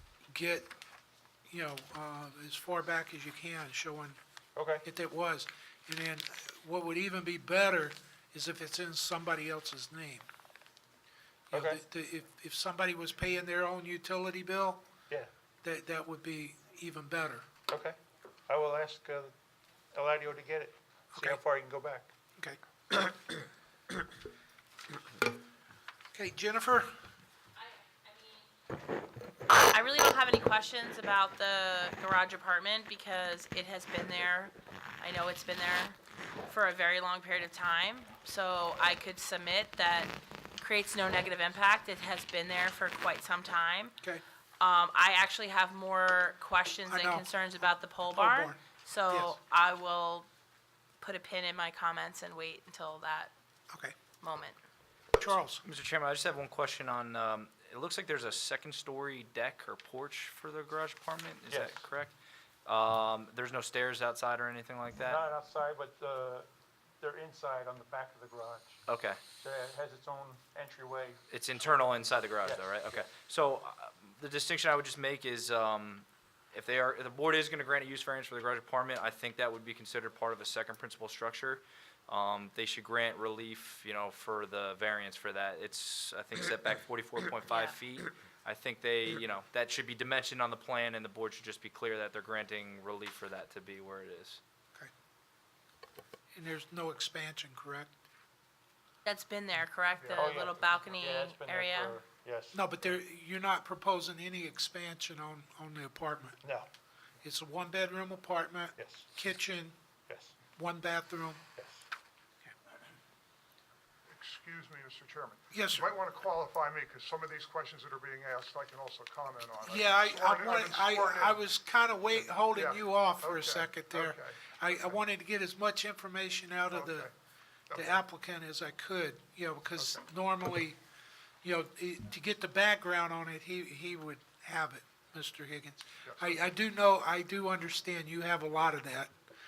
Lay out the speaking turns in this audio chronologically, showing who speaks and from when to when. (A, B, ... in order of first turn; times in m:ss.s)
0:00.3-0:00.7 A
0:01.5-0:04.2 A
0:04.6-0:04.8 B
0:04.8-0:10.3 A
0:11.5-0:11.8 B
0:11.5-0:14.8 A
0:15.6-0:17.5 A
0:17.7-0:19.4 B
0:19.9-0:22.1 B
0:21.1-0:21.4 A
0:26.1-0:26.9 A
0:27.6-0:28.5 C
0:29.5-0:44.0 C
0:44.6-0:50.3 C
0:46.9-0:49.4 A
0:51.0-0:53.3 C
0:54.2-0:54.6 C
0:55.2-0:55.6 A
0:55.6-1:02.2 D
1:01.4-1:01.9 B
1:02.7-1:05.2 D
1:05.0-1:06.5 B
1:07.0-1:08.8 B
1:08.9-1:09.2 D
1:09.4-1:11.2 B
1:11.3-1:34.4 D
1:12.4-1:13.1 B
1:27.5-1:27.8 C
1:36.3-1:37.9 A
1:39.0-1:42.0 C
1:40.1-1:42.6 B
1:42.5-1:46.4 A
1:46.4-1:46.7 B
1:47.2-1:49.8 A
1:48.8-1:49.1 B
1:50.1-1:50.4 B
1:50.6-1:51.5 A
1:51.6-1:51.8 B
1:54.1-2:01.4 E
1:55.5-1:55.9 A
1:59.6-2:07.1 A
2:02.3-2:05.0 E
2:06.7-2:07.1 E
2:07.7-2:08.0 E
2:07.7-2:10.8 A
2:11.4-2:19.1 A
2:16.0-2:16.4 E